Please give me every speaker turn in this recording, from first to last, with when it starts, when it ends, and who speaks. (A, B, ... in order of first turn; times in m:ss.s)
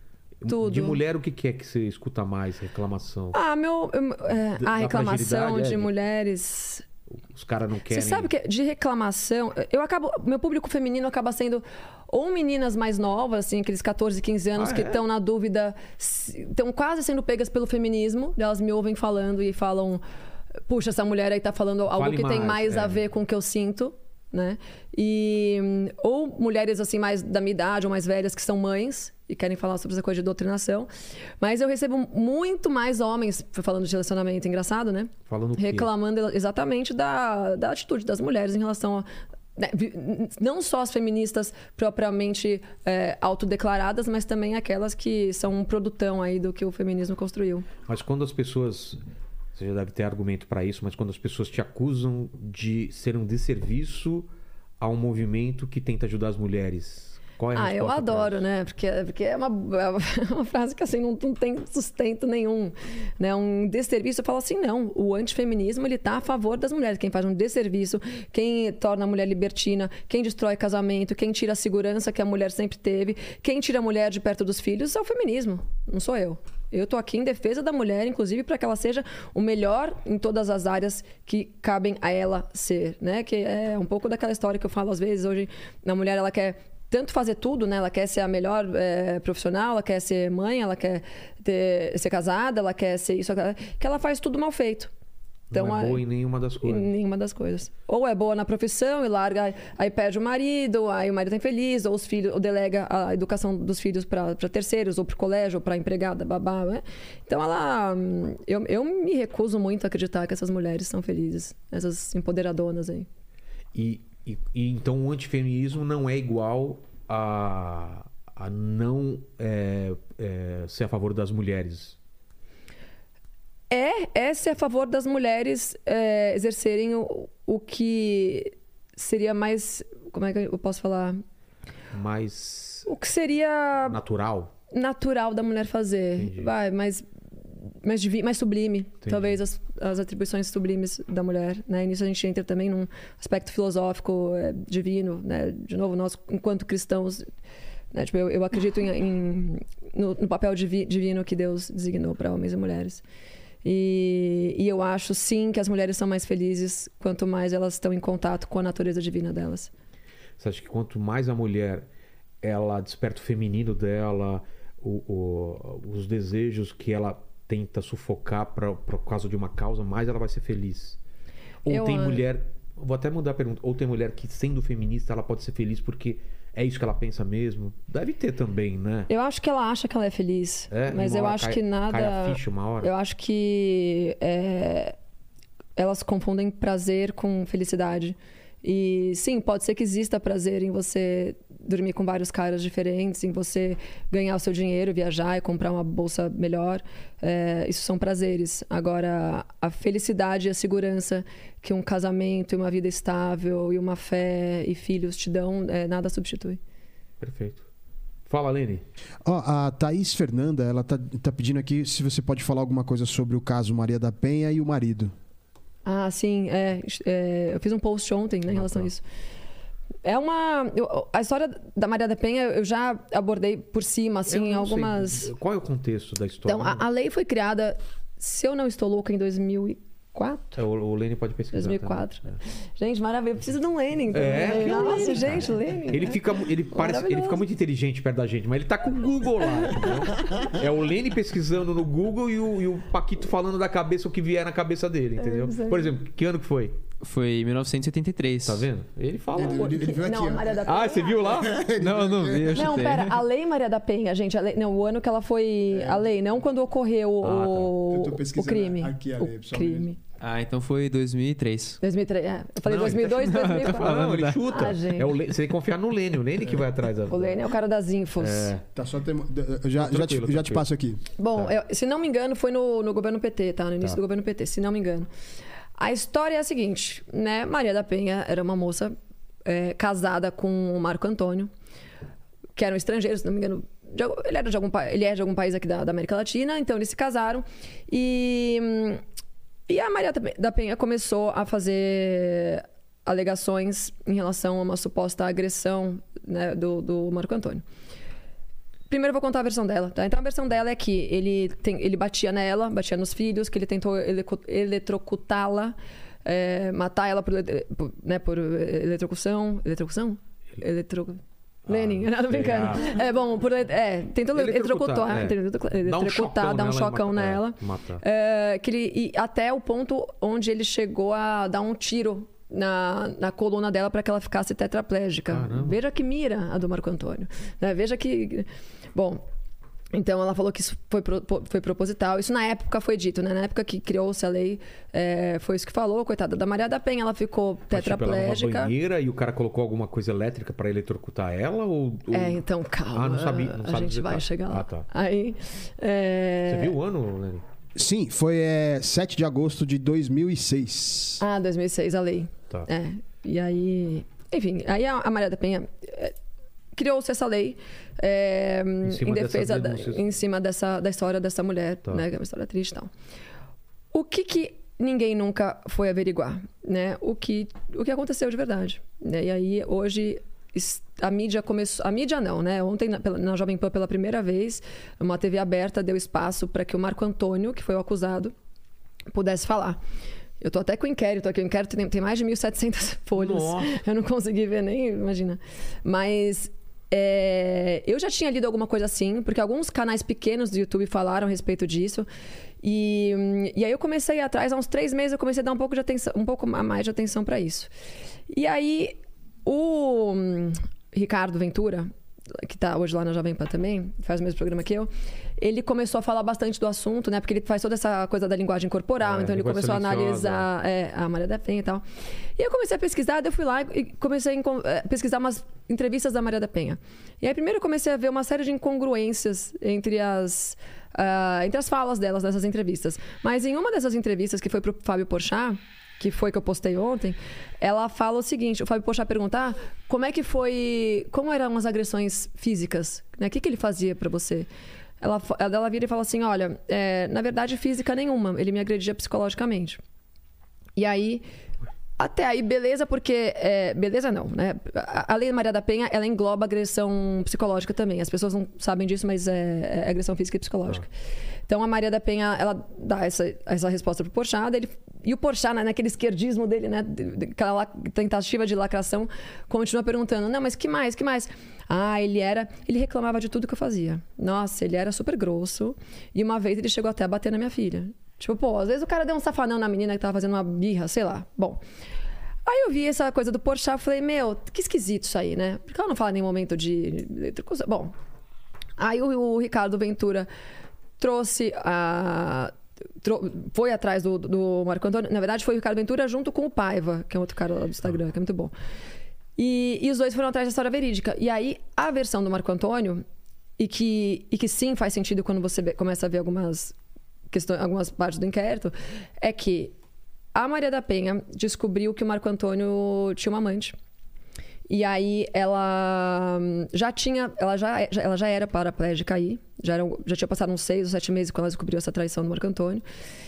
0:00.4-0:03.4 A
0:00.5-0:01.0 B
0:03.3-0:06.8 B
0:04.5-0:05.9 A
0:07.2-0:08.3 A
0:07.9-0:20.0 B
0:14.6-0:15.0 A
0:20.7-0:47.7 B
0:21.9-0:23.0 A
0:35.3-0:35.9 A
0:47.8-0:49.0 A
0:49.5-0:54.3 A
0:54.8-0:58.4 A
0:57.5-1:34.9 B
1:35.5-1:36.9 A
1:35.5-1:36.0 B
1:36.6-1:53.1 B
1:53.7-2:02.0 A
2:03.7-2:11.2 B
2:11.9-2:12.9 A
2:12.8-2:14.0 B
2:13.9-2:14.5 A
2:14.7-2:17.0 B
2:16.2-2:16.5 A
2:17.8-2:27.3 B
2:19.0-2:19.4 A
2:27.9-2:33.0 B
2:33.6-2:39.7 B
2:40.4-2:41.8 A
2:42.4-2:51.0 A
2:51.6-2:59.1 A
2:51.7-2:52.2 B
2:59.1-3:04.9 B
3:00.7-3:02.9 A
3:05.8-3:26.6 B
3:27.2-3:27.7 A
3:28.3-3:28.8 A
3:29.2-3:35.1 C
3:35.8-3:39.0 B
3:38.5-3:38.9 A
3:40.0-3:45.3 B
3:44.3-3:46.8 A
3:46.4-3:50.6 B
3:50.5-3:52.4 A
3:51.5-3:57.4 B
3:54.1-4:06.7 A
4:05.2-4:05.9 B
4:07.0-4:08.7 D
4:08.4-4:09.8 A
4:09.3-4:10.7 C
4:09.4-4:11.5 B
4:10.6-4:11.7 A
4:11.3-4:13.0 C
4:11.8-4:13.2 D
4:12.5-4:20.0 B
4:15.7-4:16.0 C
4:17.2-4:17.7 A
4:17.9-4:19.9 C
4:20.2-4:21.8 D
4:21.8-4:25.2 B
4:22.6-4:27.4 A
4:22.9-4:24.4 D
4:27.1-4:28.5 B
4:28.2-4:28.6 A
4:28.7-4:31.0 C
4:29.8-4:30.6 A
4:31.2-4:35.1 B
4:35.8-4:41.5 B
4:42.6-4:49.0 B
4:49.7-4:57.6 B
4:58.9-5:29.2 B
5:11.7-5:13.0 A
5:14.3-5:18.0 A
5:25.3-5:25.8 A
5:29.9-5:38.7 B
5:37.7-5:44.9 A
5:42.1-5:46.7 B
5:46.5-5:47.4 A
5:47.7-5:51.2 C
5:51.2-5:56.2 B
5:56.7-6:02.9 B
5:58.8-6:00.1 A
6:03.9-6:18.3 B
6:19.1-6:19.8 B
6:20.4-6:32.1 B
6:23.2-6:23.8 A
6:32.6-6:37.7 B
6:38.3-6:51.8 B
6:49.0-6:50.4 A
6:52.4-7:14.5 B
7:15.0-7:19.8 B
7:20.8-7:21.2 B
7:22.0-7:30.9 B
7:31.5-7:51.6 B
7:52.4-7:57.9 B
7:58.8-8:00.3 B
8:01.0-8:08.5 B
8:09.4-8:13.0 B
8:13.6-8:16.7 B
8:17.3-8:19.7 B
8:20.3-8:23.8 B
8:24.7-8:32.8 B